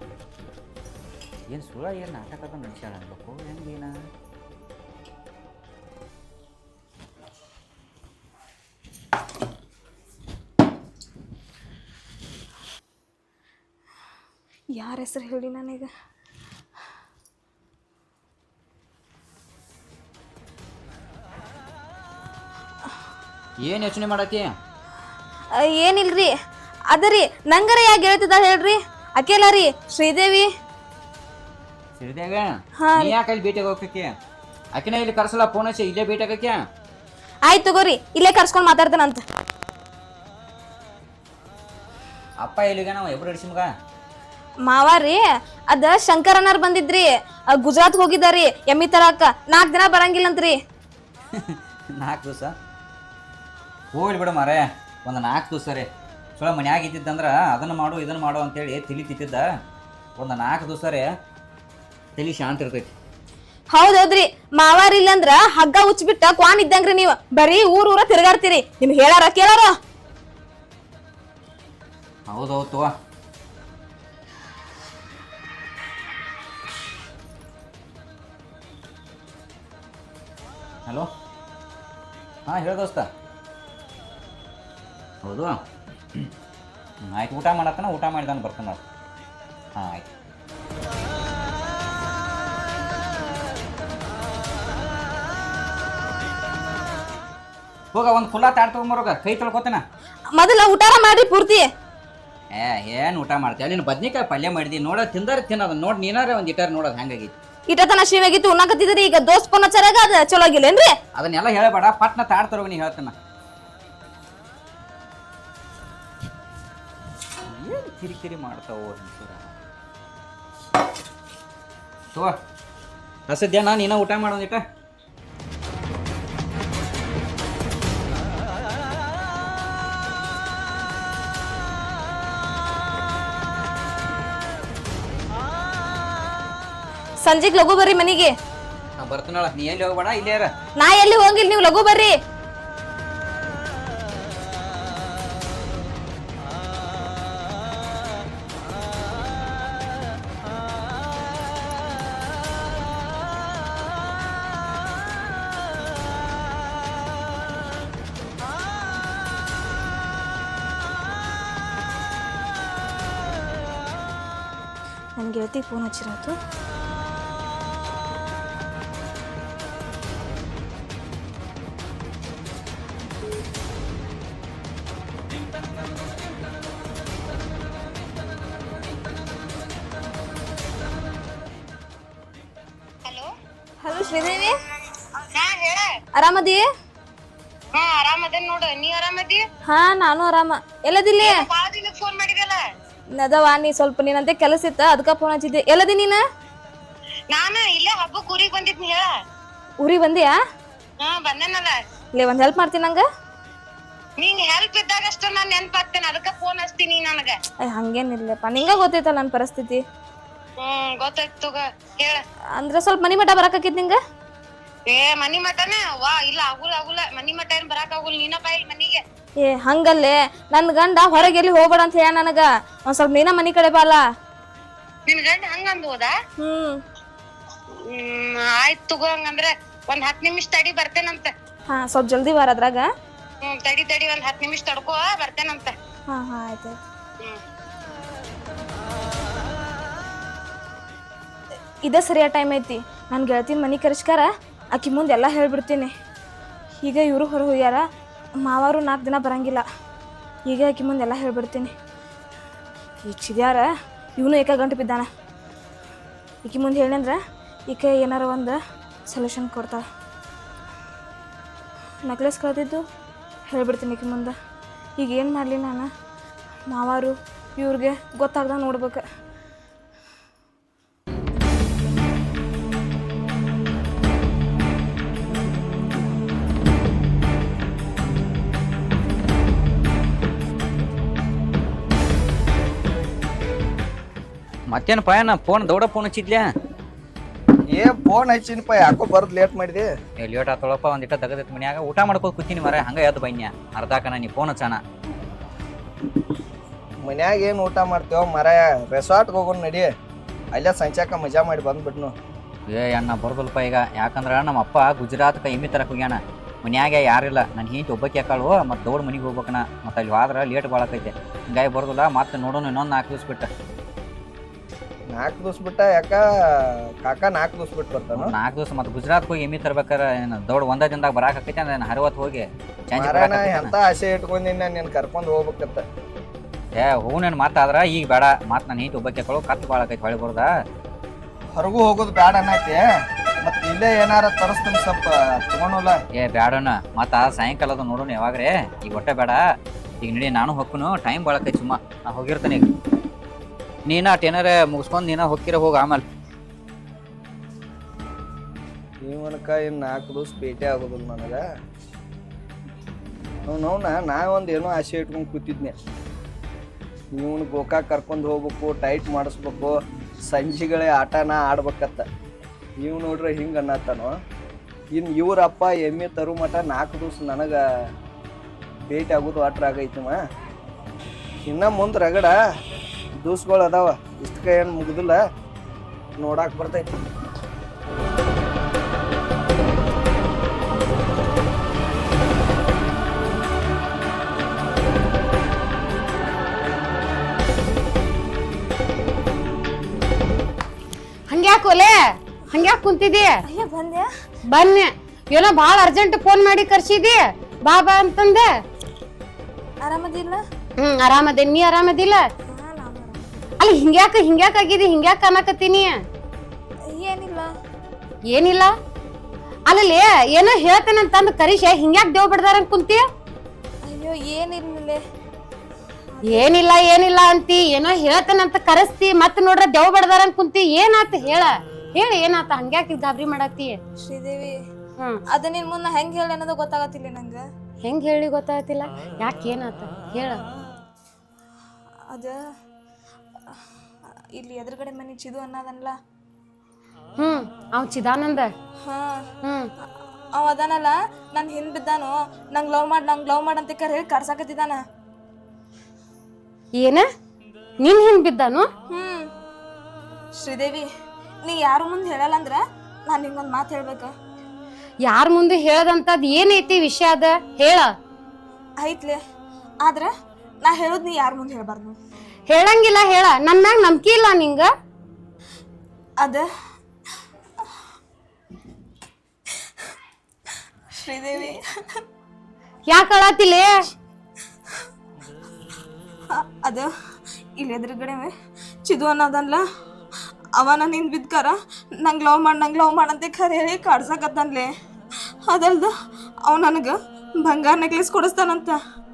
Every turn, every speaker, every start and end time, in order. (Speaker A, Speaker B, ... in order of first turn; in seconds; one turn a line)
Speaker A: 1.5-4.0
Speaker B: 14.8-15.9
Speaker A: 23.6-24.5
Speaker B: 25.6-26.3
Speaker B: 26.9-30.5
Speaker A: 32.0-34.2
Speaker B: 32.8-33.2
Speaker A: 34.7-36.6
Speaker B: 37.5-39.2
Speaker A: 42.4-43.7
Speaker B: 44.7-50.6
Speaker A: 51.3-52.5
Speaker A: 53.9-59.4
Speaker A: 60.2-61.0
Speaker A: 62.2-62.9
Speaker B: 63.7-69.7
Speaker A: 72.3-72.9
Speaker A: 82.5-83.1
Speaker A: 85.2-85.6
Speaker A: 87.0-88.8
Speaker A: 89.8-90.1
Speaker A: 97.9-99.8
Speaker B: 100.4-101.7
Speaker A: 102.5-107.3
Speaker B: 107.7-110.9
Speaker A: 111.2-113.2
Speaker A: 117.5-119.5
Speaker A: 123.3-124.6
Speaker B: 137.2-138.3
Speaker A: 139.0-140.5
Speaker B: 140.8-142.1
Speaker B: 165.2-166.4
Speaker C: 183.1-183.3
Speaker B: 183.8-184.5
Speaker C: 185.3-185.9
Speaker B: 186.2-186.6
Speaker C: 187.8-189.4
Speaker B: 189.7-191.4
Speaker C: 191.2-192.6
Speaker B: 193.2-196.2
Speaker C: 197.3-199.1
Speaker B: 199.8-200.3
Speaker C: 201.0-201.7
Speaker B: 202.2-203.0
Speaker C: 204.2-207.3
Speaker B: 207.6-209.8
Speaker C: 210.6-212.2
Speaker B: 212.6-214.0
Speaker C: 214.9-219.0
Speaker B: 219.4-224.0
Speaker C: 225.1-226.1
Speaker B: 226.4-226.8
Speaker C: 227.9-231.3
Speaker B: 231.7-232.9
Speaker C: 233.4-235.7
Speaker B: 236.1-236.8
Speaker B: 241.8-245.9
Speaker B: 246.8-247.8
Speaker B: 248.5-249.6
Speaker B: 250.5-251.7
Speaker B: 253.0-253.7
Speaker B: 254.2-255.1
Speaker B: 256.4-257.2
Speaker B: 257.7-258.6
Speaker B: 259.1-259.8
Speaker B: 262.1-262.8
Speaker B: 263.5-264.3
Speaker B: 265.0-265.9
Speaker B: 266.7-269.0
Speaker A: 284.7-286.5
Speaker D: 287.7-289.9
Speaker A: 290.2-294.8
Speaker D: 297.0-299.9
Speaker D: 300.5-302.1
Speaker A: 302.7-313.5
Speaker D: 315.1-318.4
Speaker A: 318.1-323.7
Speaker D: 322.9-325.8
Speaker A: 326.8-330.5
Speaker D: 331.6-332.8
Speaker D: 333.4-336.0
Speaker A: 336.2-339.4
Speaker A: 340.0-342.7
Speaker A: 343.9-346.0
Speaker D: 349.0-351.4
Speaker D: 353.5-355.8
Speaker D: 357.1-359.7
Speaker D: 360.3-362.0
Speaker D: 362.8-364.1
Speaker D: 364.9-367.6
Speaker D: 368.9-370.2
Speaker D: 371.4-372.4
Speaker D: 373.2-375.2
Speaker D: 376.2-377.0
Speaker E: 391.3-393.3
Speaker B: 393.5-394.1
Speaker E: 394.5-398.5
Speaker B: 399.8-400.4
Speaker E: 400.8-402.2
Speaker B: 402.5-403.3
Speaker E: 403.6-406.0
Speaker B: 406.9-407.5
Speaker E: 408.3-408.7
Speaker E: 409.7-413.1
Speaker B: 413.9-415.0
Speaker B: 416.2-416.5
Speaker E: 416.3-423.8
Speaker B: 424.0-424.6
Speaker B: 425.3-427.4
Speaker E: 427.8-430.4
Speaker B: 434.4-435.9
Speaker E: 437.2-438.5
Speaker B: 438.9-439.2
Speaker E: 439.4-439.7
Speaker B: 440.4-444.8
Speaker E: 446.8-447.1
Speaker E: 447.8-448.7
Speaker B: 448.9-449.3
Speaker B: 450.4-450.9
Speaker B: 451.4-454.1
Speaker E: 455.1-457.9
Speaker B: 458.8-459.2
Speaker B: 459.8-460.1
Speaker B: 460.6-462.0
Speaker E: 462.5-464.7
Speaker B: 470.9-471.6
Speaker E: 472.9-473.7
Speaker B: 476.3-476.9
Speaker B: 477.6-478.3
Speaker B: 478.9-479.6
Speaker B: 480.6-484.7
Speaker B: 485.5-485.9
Speaker B: 486.5-488.8